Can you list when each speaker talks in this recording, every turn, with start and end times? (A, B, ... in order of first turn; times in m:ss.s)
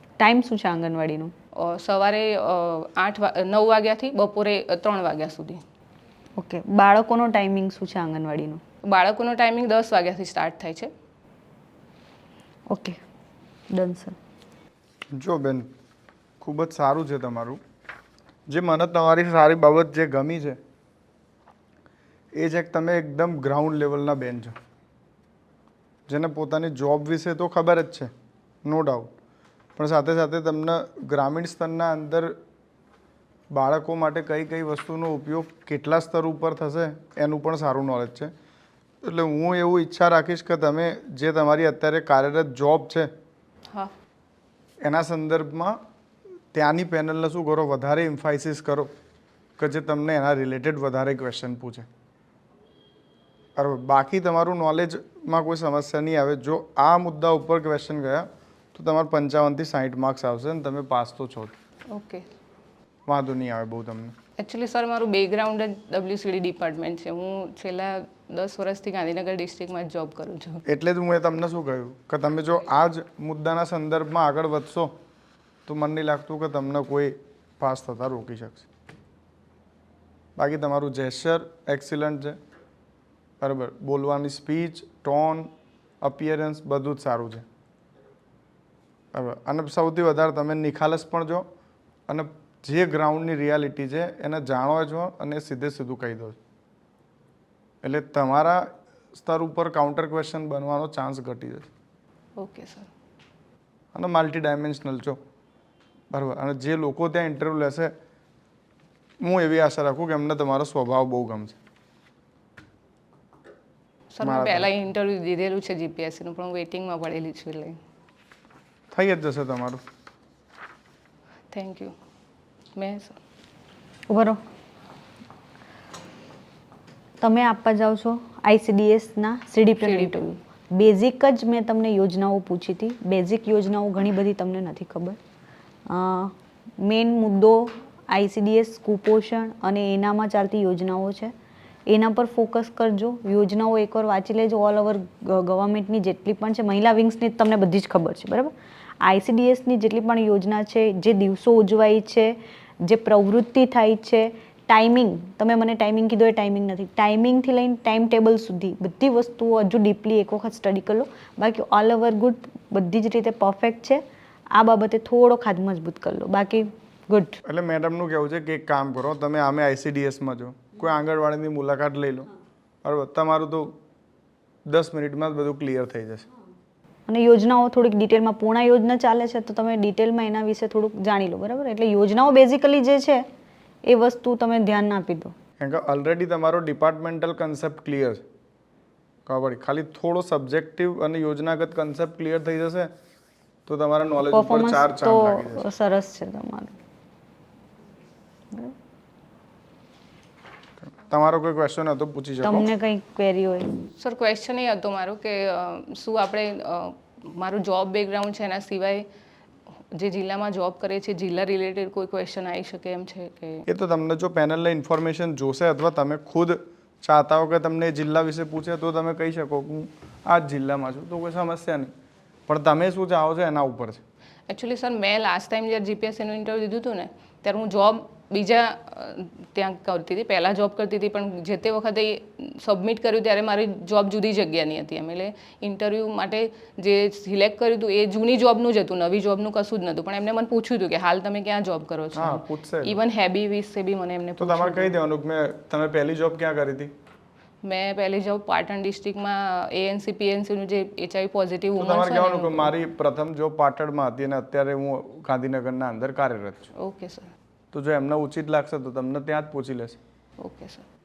0:00.2-0:01.3 A
0:01.6-0:05.6 B
0:06.4-0:08.6 A
0:08.8-0:10.9 B
0:12.7-0:13.0 A
0:13.7-0:14.2 A
0:15.1-0:15.7 C
0:16.4-0:17.6 C
0:18.5-0:20.6 C
0:22.3-0:24.6 C
0:26.1-0:28.1 C
0:28.6-0:29.1 C
0:29.8-0:32.4 C
0:33.5-0:38.3 C
0:39.0-0:43.1 C
0:44.8-0:45.8 C
0:46.5-0:48.9 C
0:49.6-0:51.9 C
0:53.6-1:01.5 C
1:01.9-1:02.3 B
1:03.1-1:04.1 C
1:04.4-1:10.6 B
1:10.7-1:14.9 C
1:15.7-1:18.7 C
1:20.4-1:22.4 C
1:23.4-1:25.5 C
1:26.0-1:27.4 C
1:29.1-1:31.4 C
1:32.1-1:36.4 C
1:37.8-1:41.7 C
1:42.4-1:42.9 B
1:43.9-1:45.2 C
1:46.1-1:47.9 C
1:49.2-1:51.6 C
1:54.1-1:57.8 B
1:54.2-1:54.7 C
1:58.9-1:59.8 C
2:01.5-2:02.0 B
2:02.8-2:03.2 B
2:04.1-2:04.4 A
2:07.2-2:15.2 A
2:09.8-2:10.4 B
2:15.9-2:21.3 A
2:21.9-2:47.4 A
2:47.4-2:52.3 C
2:52.8-2:53.8 C
2:54.7-2:56.3 C
2:57.1-3:03.3 A
3:03.9-3:05.3 A
3:05.6-3:08.2 C
3:09.3-3:12.9 C
3:13.7-3:15.6 C
3:14.3-3:16.8 A
3:20.8-3:22.6 C
3:22.4-3:23.8 A
3:24.0-3:29.0 B
3:29.9-3:33.6 B
3:33.7-3:41.9 C
3:42.5-3:44.0 C
3:44.5-4:05.0 B
4:02.2-4:03.0 C
4:04.4-4:06.9 C
4:07.6-4:12.7 B
4:11.8-4:16.7 C
4:16.8-4:17.3 B
4:17.7-4:20.0 C
4:20.4-4:20.9 B